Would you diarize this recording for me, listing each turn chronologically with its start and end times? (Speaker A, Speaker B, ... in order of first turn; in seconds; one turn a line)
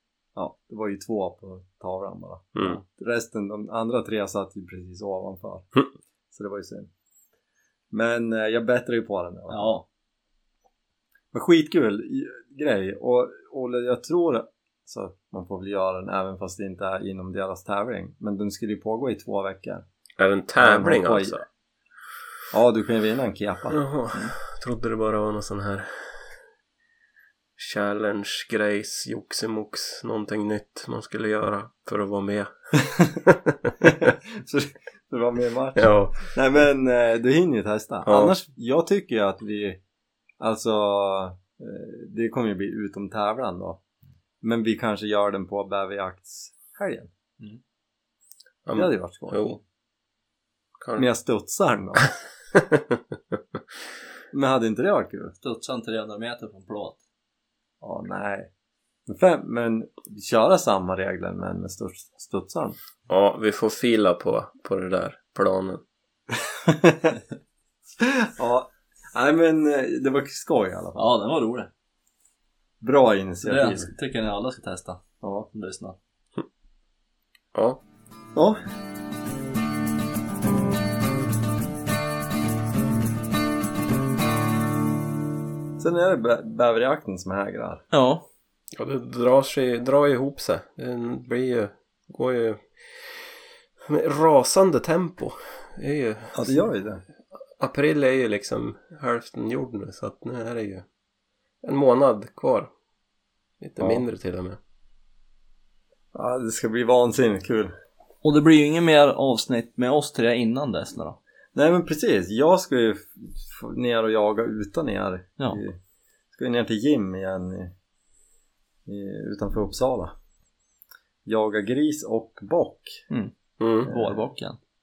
Speaker A: 0.3-5.7
Speaker A: 6.3-6.9
Speaker A: 7.9-9.8
Speaker B: 9.5-9.8
Speaker A: 11.3-19.8
Speaker C: 20.2-21.4
Speaker A: 20.6-21.4
Speaker A: 22.5-23.8
Speaker C: 23.7-25.9
Speaker C: 27.6-32.5
Speaker A: 32.8-33.2
Speaker C: 33.3-33.7
Speaker A: 33.8-39.8
Speaker C: 35.8-36.2
Speaker C: 38.0-38.3
Speaker A: 40.4-43.8
Speaker A: 44.4-47.1
Speaker C: 48.6-49.6
Speaker A: 48.7-49.6
Speaker A: 51.0-52.1
Speaker C: 52.5-53.3
Speaker A: 54.3-55.3
Speaker B: 55.4-57.0
Speaker A: 57.8-58.5
Speaker A: 59.1-62.8
Speaker C: 63.1-65.8
Speaker A: 66.5-67.2
Speaker A: 68.0-71.1
Speaker B: 71.0-71.7
Speaker A: 72.8-73.9
Speaker B: 73.4-76.0
Speaker A: 75.2-75.5
Speaker C: 77.5-77.8
Speaker A: 85.8-87.8
Speaker B: 87.9-88.2
Speaker C: 88.7-93.2
Speaker C: 93.8-96.6
Speaker A: 96.3-97.0
Speaker C: 97.6-100.8
Speaker C: 101.6-102.7
Speaker C: 103.6-104.6
Speaker A: 106.1-107.7
Speaker B: 108.2-111.2
Speaker A: 111.5-115.8
Speaker A: 116.3-117.7
Speaker A: 118.9-120.1
Speaker A: 121.2-123.0
Speaker C: 123.6-123.9
Speaker B: 123.8-124.6
Speaker A: 123.8-124.2